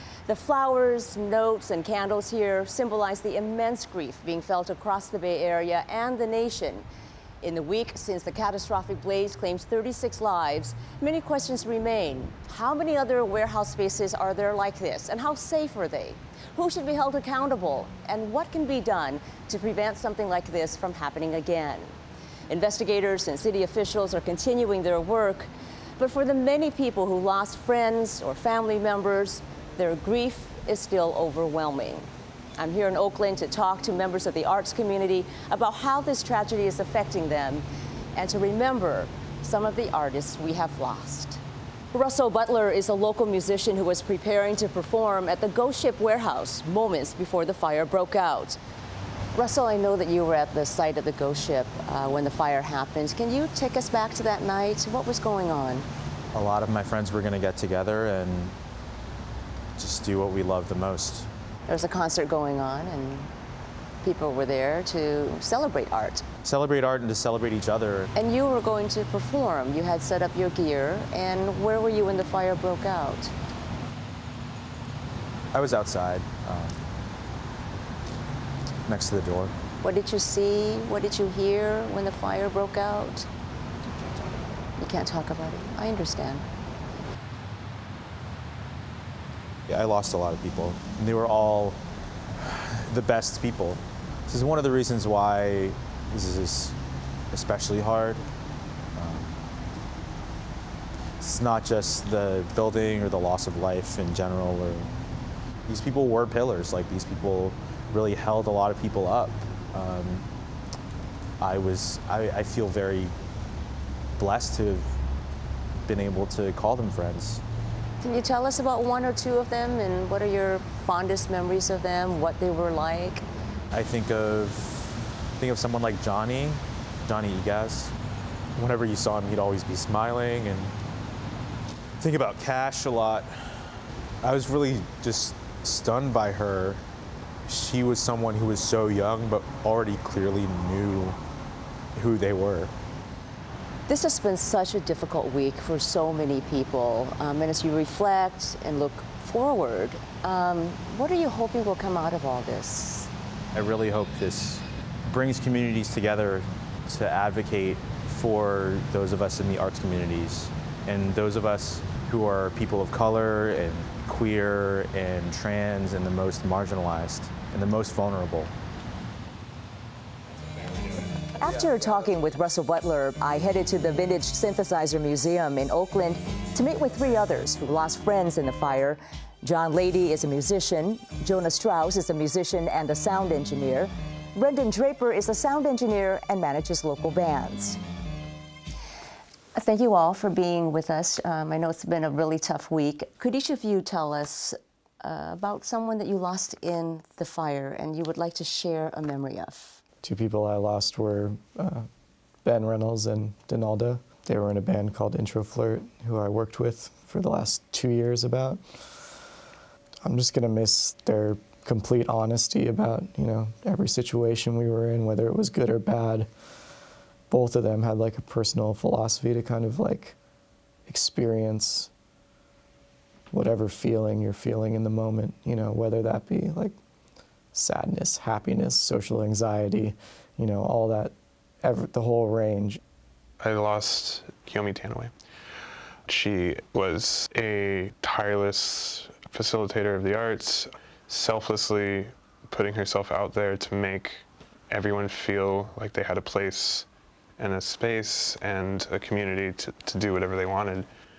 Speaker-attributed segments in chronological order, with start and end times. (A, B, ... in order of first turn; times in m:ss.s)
0:00.3-0:06.8 A
0:07.4-0:21.9 A
0:22.5-0:41.4 A
0:41.9-0:48.6 A
0:49.3-0:55.9 A
0:56.3-0:58.6 B
0:59.8-1:01.3 B
1:01.7-1:03.3 A
1:04.0-1:06.2 A
1:06.4-1:08.1 B
1:08.1-1:13.3 A
1:15.5-1:16.8 B
1:18.8-1:19.5 B
1:19.8-1:23.3 A
1:24.8-1:26.5 A
1:29.7-1:31.8 B
1:32.4-1:36.8 B
1:37.3-1:38.2 B
1:38.9-1:39.4 B
1:41.2-1:44.9 B
1:45.6-1:50.2 B
1:51.4-1:53.2 B
1:54.2-1:54.9 B
1:55.8-1:57.4 B
1:58.0-2:03.2 A
2:03.7-2:07.9 B
2:08.6-2:10.8 B
2:12.0-2:16.8 B
2:17.4-2:21.2 B
2:21.9-2:22.7 B
2:23.9-2:33.1 A
2:33.5-2:48.5 B
2:51.4-3:07.8 A
3:09.5-3:19.8 A
3:20.0-3:21.9 C
3:22.4-3:29.2 C
3:30.0-3:36.3 C
3:37.3-3:40.2 C
3:40.9-3:41.9 C
3:43.3-3:46.8 C
3:47.5-3:52.8 C
3:53.4-3:55.1 D
3:56.1-4:06.8 D
4:07.4-4:10.9 D